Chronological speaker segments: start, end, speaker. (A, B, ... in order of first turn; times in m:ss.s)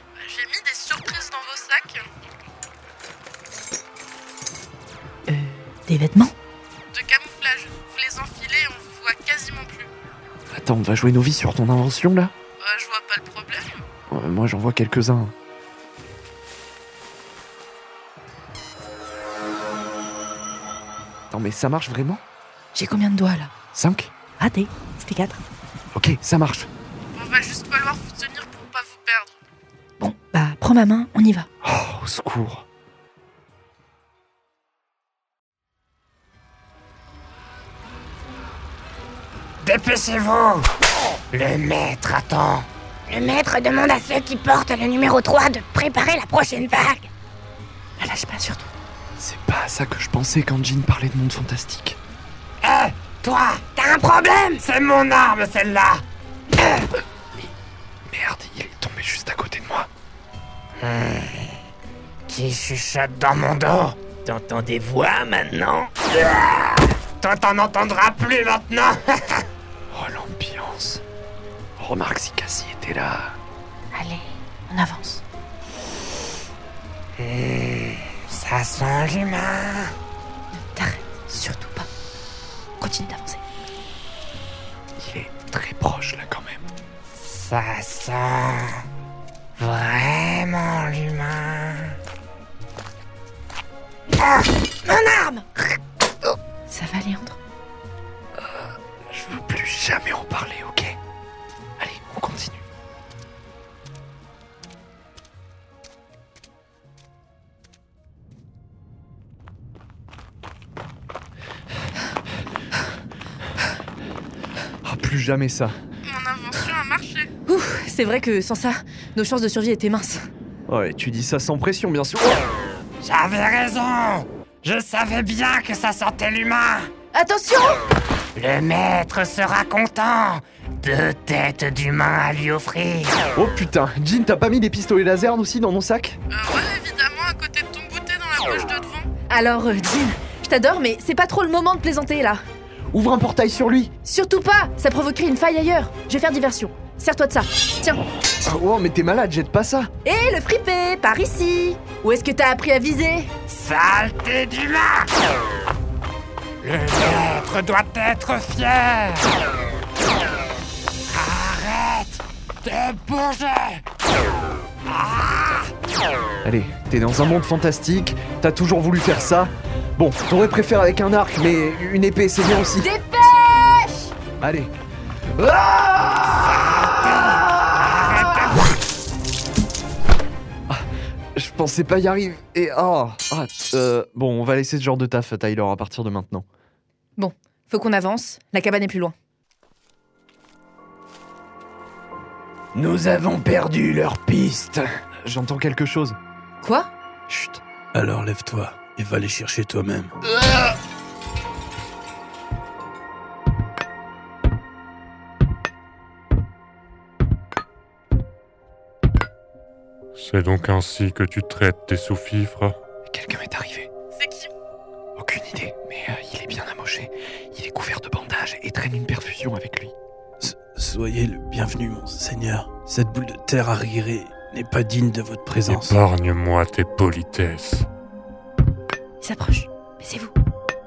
0:00.2-0:02.0 A
0:05.3-0:06.3 B
0:06.9-0:09.9 A
0:10.5-0:12.3 C
0:12.6-0:13.8 A
0:14.1-0:15.3 C
0:21.3-0:22.2 C
0:22.7-0:23.5 B
0:23.7-0:24.1 C
0:24.4-0:25.4 B
0:25.9-0:26.7 C
0:27.1-0:29.4 A
0:30.0-0:31.5 B
0:31.6-0:32.6 C
0:39.6-0:40.7 D
0:41.3-0:42.7 D
0:43.1-0:47.1 E
0:48.0-0:48.7 B
0:49.2-0:52.0 C
0:52.6-0:54.0 D
0:53.8-0:54.6 E
0:54.6-0:56.0 D
0:58.1-0:59.9 C
1:00.8-1:01.6 D
1:02.3-1:04.0 D
1:04.2-1:05.9 E
1:06.2-1:09.4 D
1:09.9-1:11.0 C
1:11.8-1:13.4 C
1:13.9-1:15.2 B
1:17.2-1:19.9 D
1:20.6-1:21.9 B
1:22.8-1:23.4 B
1:25.0-1:26.6 C
1:27.2-1:28.8 D
1:29.6-1:32.0 D
1:34.2-1:34.5 D
1:34.9-1:35.4 E
1:36.7-1:37.4 B
1:38.4-1:41.0 C
1:41.8-1:42.6 C
1:54.8-1:55.8 C
1:56.0-1:57.3 A
1:57.5-2:00.3 B
2:00.7-2:02.5 C
2:03.0-2:06.9 D
2:07.1-2:07.8 B
2:08.4-2:13.2 D
2:13.4-2:16.2 C
2:16.3-2:19.1 A
2:19.3-2:22.4 B
2:22.9-2:23.9 C
2:24.0-2:28.0 B
2:28.4-2:29.9 C
2:30.0-2:33.3 B
2:33.5-2:35.1 D
2:36.6-2:39.4 D
2:41.1-2:43.8 D
2:44.8-2:45.7 D
2:46.4-2:52.9 C
2:52.8-2:54.1 B
2:54.4-2:54.7 C
2:55.4-2:58.4 C
3:00.7-3:06.4 C
3:07.2-3:09.1 B
3:12.8-3:16.2 C
3:16.6-3:16.9 B
3:17.3-3:17.6 C
3:17.9-3:20.1 F
3:30.2-3:32.8 G
3:33.1-3:33.9 C
3:34.1-3:34.5 A
3:35.2-3:39.9 C
3:40.4-3:46.0 F
3:45.6-3:47.9 G
3:49.2-3:50.3 B